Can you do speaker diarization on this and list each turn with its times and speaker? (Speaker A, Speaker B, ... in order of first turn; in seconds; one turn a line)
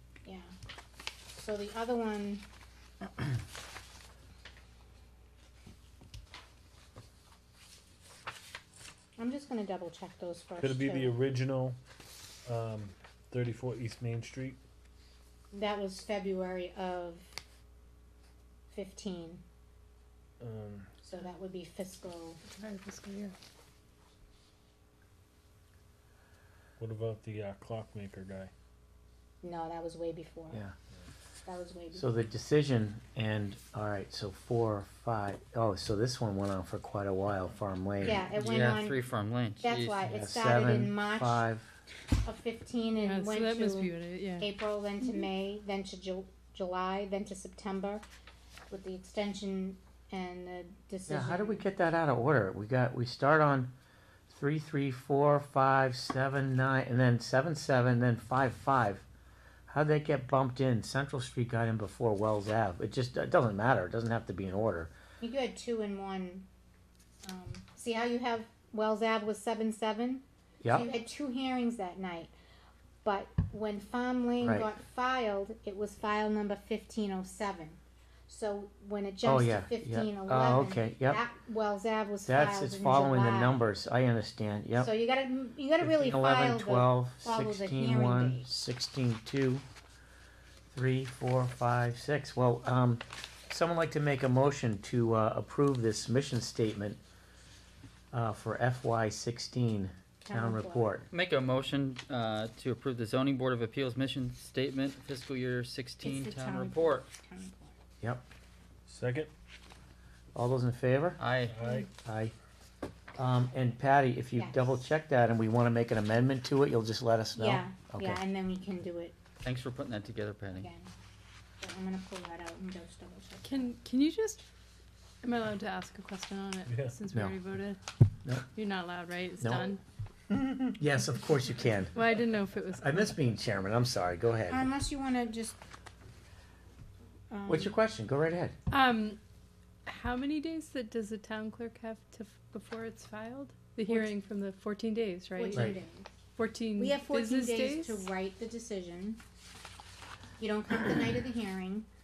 Speaker A: 0.2-0.5
Speaker A: 1.3-2.4
Speaker A: 9.2-11.1
Speaker B: 10.6-11.8
Speaker B: 12.5-14.6
Speaker A: 15.5-17.4
Speaker A: 18.7-19.4
Speaker B: 20.4-20.9
Speaker A: 21.0-22.4
Speaker C: 22.4-23.4
Speaker B: 26.8-28.5
Speaker A: 29.4-30.6
Speaker A: 31.4-32.2
Speaker D: 31.9-38.3
Speaker A: 38.0-39.0
Speaker E: 38.4-40.1
Speaker A: 39.6-41.5
Speaker D: 40.0-41.7
Speaker A: 42.2-48.0
Speaker C: 43.0-44.5
Speaker A: 48.7-51.6
Speaker D: 51.1-53.7
Speaker D: 54.3-59.1
Speaker D: 59.7-64.9
Speaker A: 65.2-66.5
Speaker A: 67.2-72.3
Speaker D: 70.6-70.9
Speaker A: 73.0-83.6
Speaker D: 74.4-74.7
Speaker D: 79.2-81.2
Speaker D: 82.2-84.9
Speaker A: 84.8-88.5
Speaker D: 85.8-89.6
Speaker D: 90.7-97.0
Speaker D: 98.1-101.1
Speaker A: 100.2-101.0
Speaker E: 101.1-107.1
Speaker A: 106.0-107.8
Speaker B: 108.9-109.3
Speaker D: 110.3-111.2
Speaker E: 111.2-111.5
Speaker B: 111.4-111.9
Speaker D: 112.0-112.3
Speaker D: 113.2-118.2
Speaker A: 114.3-114.9
Speaker A: 117.4-119.2
Speaker E: 119.4-120.7
Speaker A: 120.5-120.9
Speaker A: 121.6-123.7
Speaker C: 123.4-124.5
Speaker C: 125.2-127.8
Speaker D: 127.1-127.4
Speaker C: 128.6-129.8
Speaker D: 129.4-129.7
Speaker D: 130.3-131.9
Speaker C: 131.9-133.2
Speaker D: 132.8-134.7
Speaker A: 134.5-135.6
Speaker A: 137.3-137.8
Speaker D: 137.5-138.6
Speaker C: 138.7-139.2
Speaker C: 139.9-145.7
Speaker A: 145.3-146.1
Speaker C: 146.4-148.1
Speaker A: 146.8-149.2
Speaker A: 150.4-151.9